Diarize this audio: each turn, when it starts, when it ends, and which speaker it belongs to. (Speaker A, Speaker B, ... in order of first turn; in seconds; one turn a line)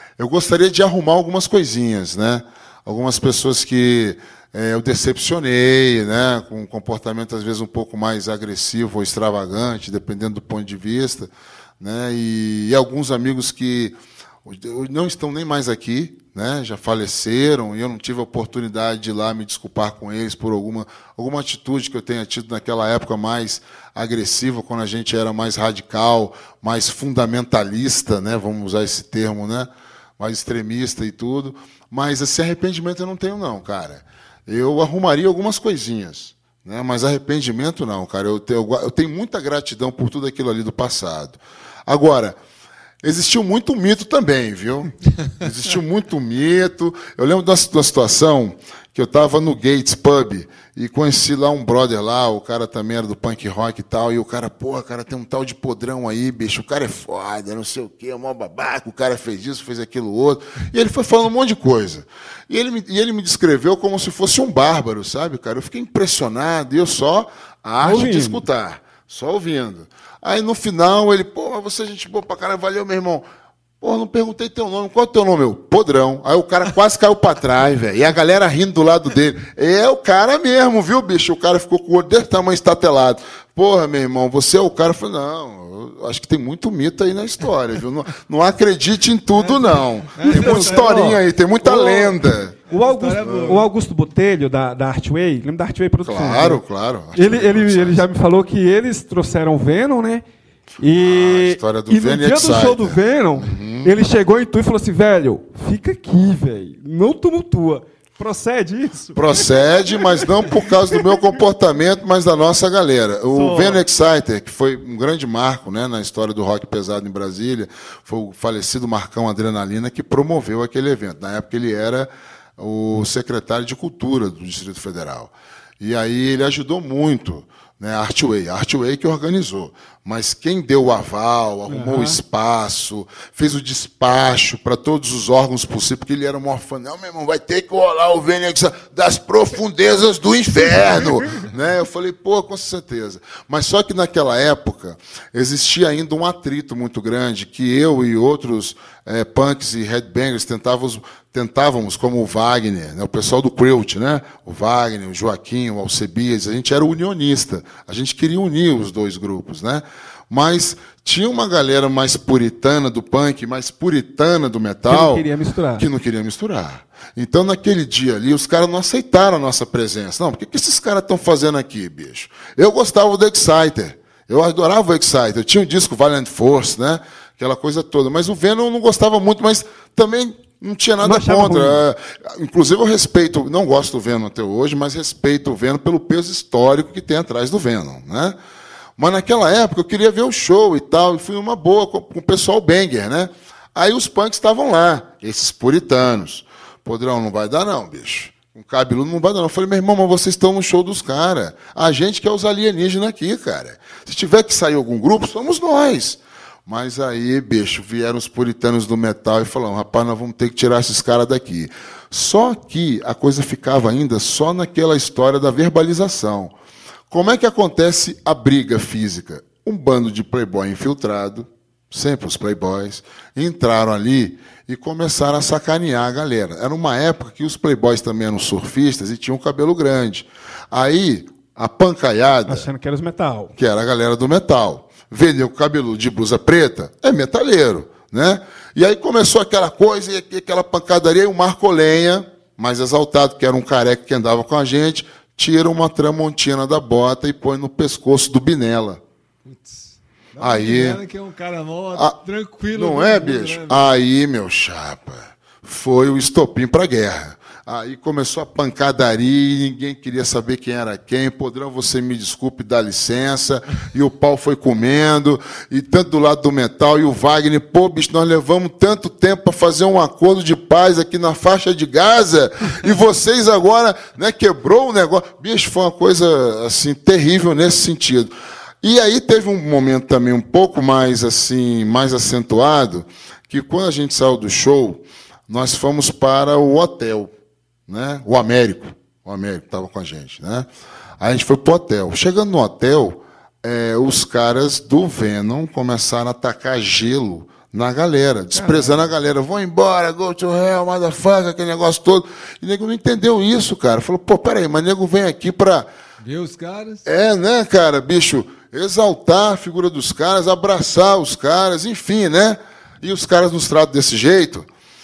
Speaker A: 0.2-42.4
Speaker A: 43.0-73.2
Speaker B: 67.8-68.4
Speaker A: 73.8-92.6
Speaker C: 89.3-91.2
Speaker B: 90.2-96.6
Speaker C: 92.7-93.7
Speaker A: 93.2-93.7
Speaker A: 96.0-98.0
Speaker B: 97.1-100.2
Speaker B: 100.8-110.2
Speaker A: 101.0-103.9
Speaker A: 109.1-165.2
Speaker B: 113.3-113.8
Speaker B: 131.7-132.2
Speaker B: 164.9-165.8
Speaker A: 165.8-188.3
Speaker B: 181.0-181.8
Speaker A: 189.0-216.5
Speaker A: 217.1-232.7
Speaker B: 232.4-233.5
Speaker A: 233.6-249.0
Speaker C: 249.4-253.9
Speaker A: 250.4-251.0
Speaker A: 252.7-287.3
Speaker A: 287.9-290.7
Speaker A: 291.2-305.9
Speaker B: 298.5-299.0
Speaker C: 306.2-307.0
Speaker A: 307.0-314.7